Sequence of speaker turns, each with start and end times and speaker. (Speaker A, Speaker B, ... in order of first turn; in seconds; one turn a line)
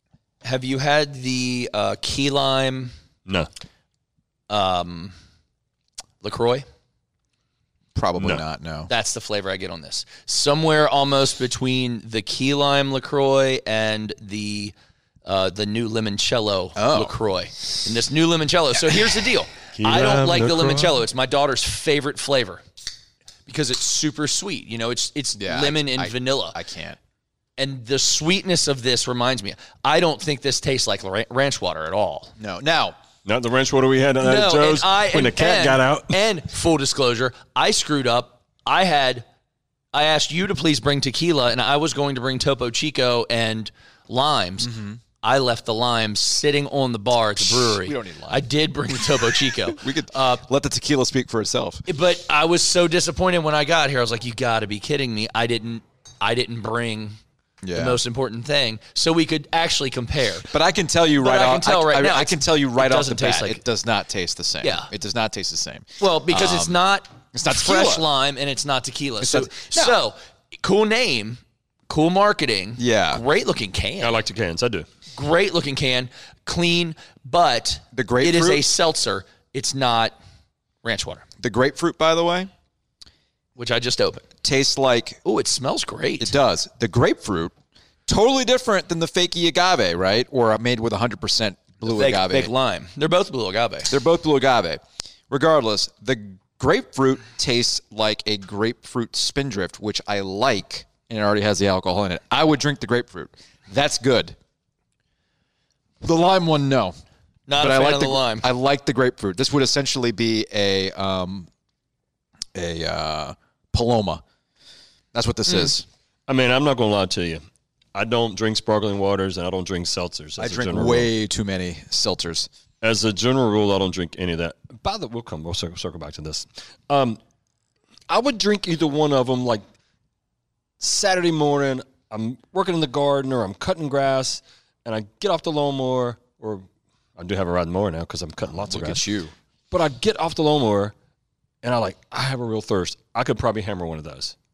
Speaker A: 0.4-2.9
Speaker A: 4.5-5.2
Speaker A: 6.2-6.7
Speaker B: 8.0-8.9
Speaker A: 8.9-22.6
Speaker B: 16.8-17.2
Speaker C: 19.7-21.0
Speaker A: 23.5-26.6
Speaker B: 25.4-27.0
Speaker A: 27.6-32.3
Speaker B: 32.4-33.0
Speaker C: 33.2-36.2
Speaker A: 34.2-39.3
Speaker A: 39.9-44.7
Speaker B: 44.6-45.0
Speaker A: 45.2-50.4
Speaker B: 47.4-48.5
Speaker B: 49.7-51.8
Speaker A: 51.9-57.2
Speaker B: 57.6-58.0
Speaker A: 57.7-60.5
Speaker B: 60.5-66.8
Speaker A: 61.2-63.6
Speaker A: 64.6-64.9
Speaker A: 66.0-74.2
Speaker B: 67.3-68.1
Speaker B: 69.2-70.0
Speaker B: 72.8-73.2
Speaker C: 74.0-74.9
Speaker A: 75.2-80.2
Speaker B: 77.9-78.6
Speaker A: 80.8-81.2
Speaker B: 81.4-82.5
Speaker A: 83.6-84.3
Speaker B: 84.4-85.2
Speaker A: 85.2-86.3
Speaker B: 86.2-87.5
Speaker B: 88.1-92.5
Speaker A: 91.8-93.9
Speaker B: 93.9-104.4
Speaker B: 106.0-107.0
Speaker A: 107.5-108.5
Speaker B: 107.6-111.5
Speaker B: 112.5-114.2
Speaker B: 115.1-115.9
Speaker C: 116.3-117.4
Speaker C: 118.0-121.1
Speaker B: 120.4-122.5
Speaker C: 122.8-127.2
Speaker C: 128.1-129.7
Speaker C: 130.8-139.0
Speaker B: 138.5-139.3
Speaker C: 139.7-140.9
Speaker C: 141.6-144.3